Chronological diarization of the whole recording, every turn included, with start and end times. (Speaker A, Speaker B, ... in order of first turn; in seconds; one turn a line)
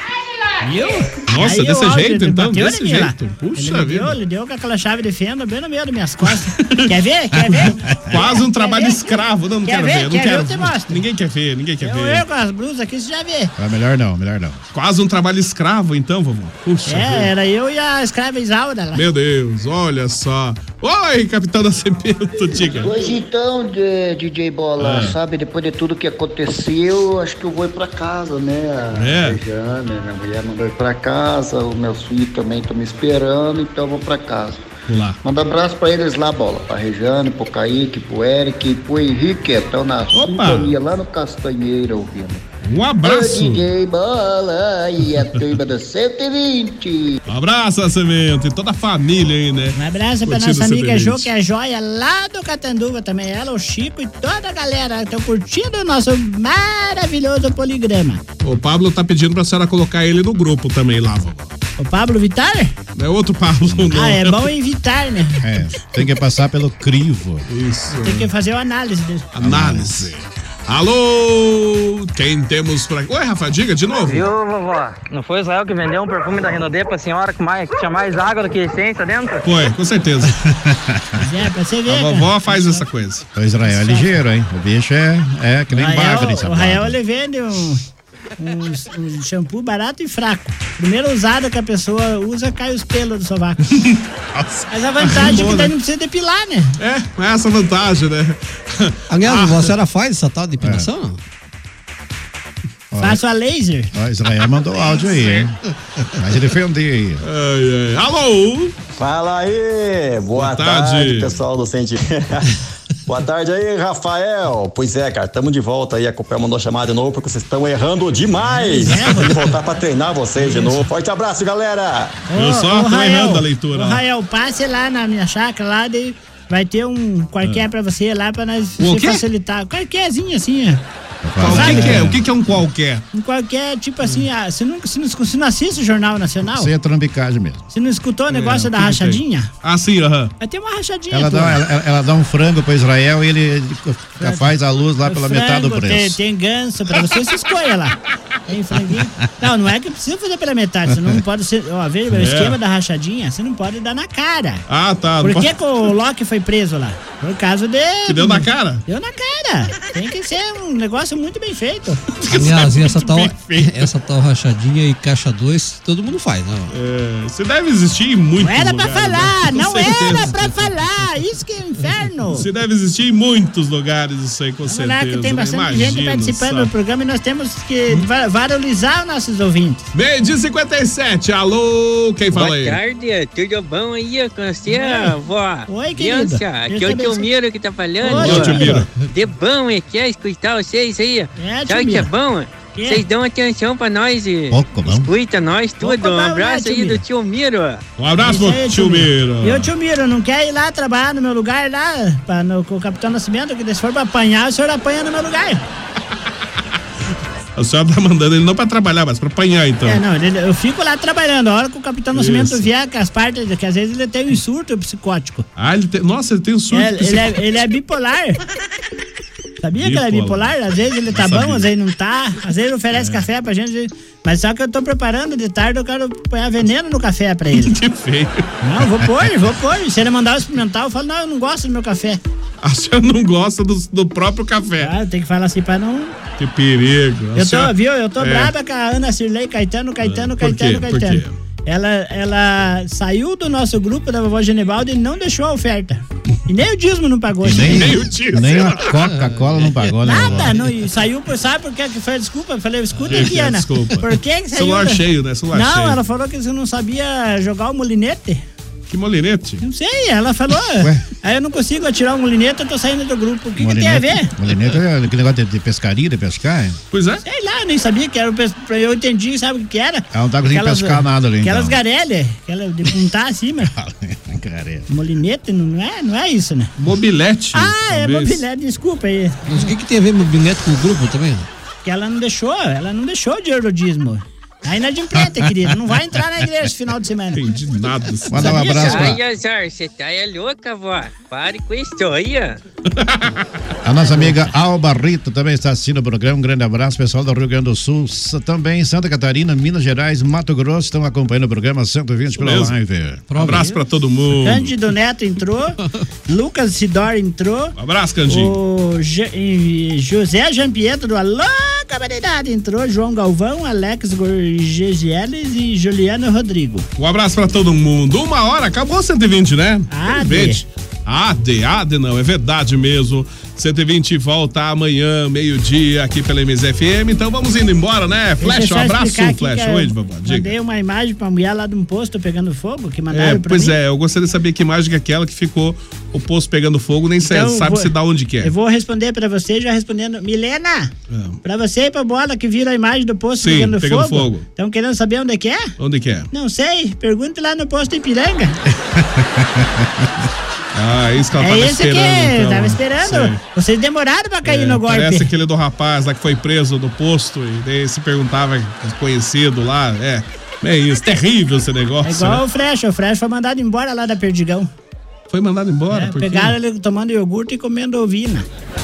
Speaker A: 0.1-11.0
Speaker B: 1.3-4.2
Speaker B: 6.2-12.2
Speaker C: 7.7-8.2
Speaker A: 11.8-13.5
Speaker C: 13.6-14.6
Speaker B: 14.7-17.3
Speaker A: 16.9-19.0
Speaker B: 18.9-22.9
Speaker D: 22.8-34.6
Speaker B: 24.8-25.1
Speaker B: 28.9-29.4
Speaker B: 34.9-35.2
Speaker D: 35.2-42.4
Speaker B: 40.1-40.8
Speaker B: 42.6-43.7
Speaker D: 43.0-47.2
Speaker B: 47.3-51.3
Speaker A: 49.7-58.2
Speaker B: 58.4-61.5
Speaker A: 61.8-62.7
Speaker B: 62.9-64.5
Speaker A: 63.9-65.5
Speaker C: 65.4-67.5
Speaker B: 67.5-68.3
Speaker A: 67.9-69.3
Speaker B: 69.3-74.3
Speaker C: 69.4-70.1
Speaker E: 74.0-79.5
Speaker B: 79.4-80.5
Speaker C: 80.7-81.2
Speaker A: 81.2-82.8
Speaker B: 81.9-83.2
Speaker C: 83.3-87.0
Speaker A: 83.7-84.2
Speaker A: 85.7-87.8
Speaker A: 88.4-93.8
Speaker B: 93.8-95.7
Speaker A: 94.7-96.8
Speaker B: 96.8-99.7
Speaker F: 99.1-101.2
Speaker C: 100.6-100.9
Speaker C: 102.9-103.2
Speaker A: 103.0-103.9
Speaker C: 103.9-105.6
Speaker C: 106.1-107.2
Speaker B: 107.2-108.7
Speaker G: 109.0-122.2
Speaker B: 110.3-111.4
Speaker A: 118.5-119.5
Speaker A: 120.4-120.8
Speaker A: 122.3-130.8
Speaker B: 122.3-124.0
Speaker B: 128.8-129.2
Speaker C: 131.2-132.2
Speaker B: 131.4-133.0
Speaker A: 131.4-132.1
Speaker A: 133.1-136.7
Speaker C: 136.5-137.6
Speaker A: 137.7-139.5
Speaker B: 138.3-140.3
Speaker A: 140.4-141.6
Speaker C: 141.1-146.2
Speaker A: 144.2-144.5
Speaker A: 145.0-154.6
Speaker B: 152.1-152.6
Speaker B: 154.7-155.6
Speaker A: 155.2-162.2
Speaker B: 158.1-158.8
Speaker B: 162.2-163.9
Speaker F: 162.2-166.7
Speaker B: 166.7-170.5
Speaker A: 168.4-172.5
Speaker B: 172.3-176.7
Speaker A: 174.7-179.9
Speaker B: 179.9-182.8
Speaker H: 182.3-197.8
Speaker A: 184.7-187.3
Speaker B: 188.0-188.9
Speaker A: 188.0-188.9
Speaker A: 191.4-192.1
Speaker A: 192.8-193.0
Speaker C: 194.5-195.1
Speaker A: 195.8-197.0
Speaker B: 198.0-199.7
Speaker A: 198.2-205.6
Speaker B: 207.6-210.0
Speaker A: 209.8-215.4
Speaker B: 212.1-212.7
Speaker B: 215.6-217.4
Speaker A: 216.7-218.4
Speaker A: 219.6-227.8
Speaker B: 219.8-220.6
Speaker B: 221.1-221.7
Speaker B: 222.9-223.2
Speaker B: 227.5-229.3
Speaker A: 228.6-232.2
Speaker B: 232.6-234.9
Speaker A: 234.8-236.1
Speaker B: 236.4-238.5
Speaker A: 237.3-248.1
Speaker B: 240.0-241.3
Speaker C: 247.4-250.6
Speaker B: 247.5-249.1
Speaker F: 249.0-249.6
Speaker A: 250.0-258.4
Speaker B: 253.1-256.0
Speaker B: 258.9-259.6
Speaker A: 259.6-264.3
Speaker C: 260.8-261.0
Speaker C: 263.6-266.8
Speaker B: 266.9-267.2
Speaker A: 267.2-273.7
Speaker C: 270.1-271.8
Speaker C: 273.7-274.9
Speaker A: 274.9-276.7
Speaker B: 276.8-278.4
Speaker A: 277.5-279.7
Speaker F: 279.5-281.5
Speaker A: 281.8-287.4
Speaker B: 287.3-289.2
Speaker C: 288.3-289.2
Speaker A: 288.3-289.1
Speaker H: 288.7-292.6
Speaker B: 292.9-293.4
Speaker C: 293.8-303.3
Speaker B: 302.4-302.8
Speaker F: 303.3-303.8
Speaker B: 303.3-304.7
Speaker A: 304.4-307.8
Speaker B: 307.8-308.6
Speaker A: 308.3-316.9
Speaker B: 317.0-330.5
Speaker A: 319.9-320.6
Speaker A: 328.4-333.8
Speaker B: 333.1-338.5
Speaker A: 337.2-340.9
Speaker B: 341.1-341.4
Speaker A: 341.4-345.7
Speaker B: 343.4-344.4
Speaker B: 345.8-346.3
Speaker A: 346.3-348.6
Speaker C: 348.8-350.1
Speaker B: 350.7-353.4
Speaker A: 351.4-355.3
Speaker B: 354.4-362.4
Speaker A: 362.0-364.7
Speaker B: 365.3-366.6
Speaker A: 365.9-368.5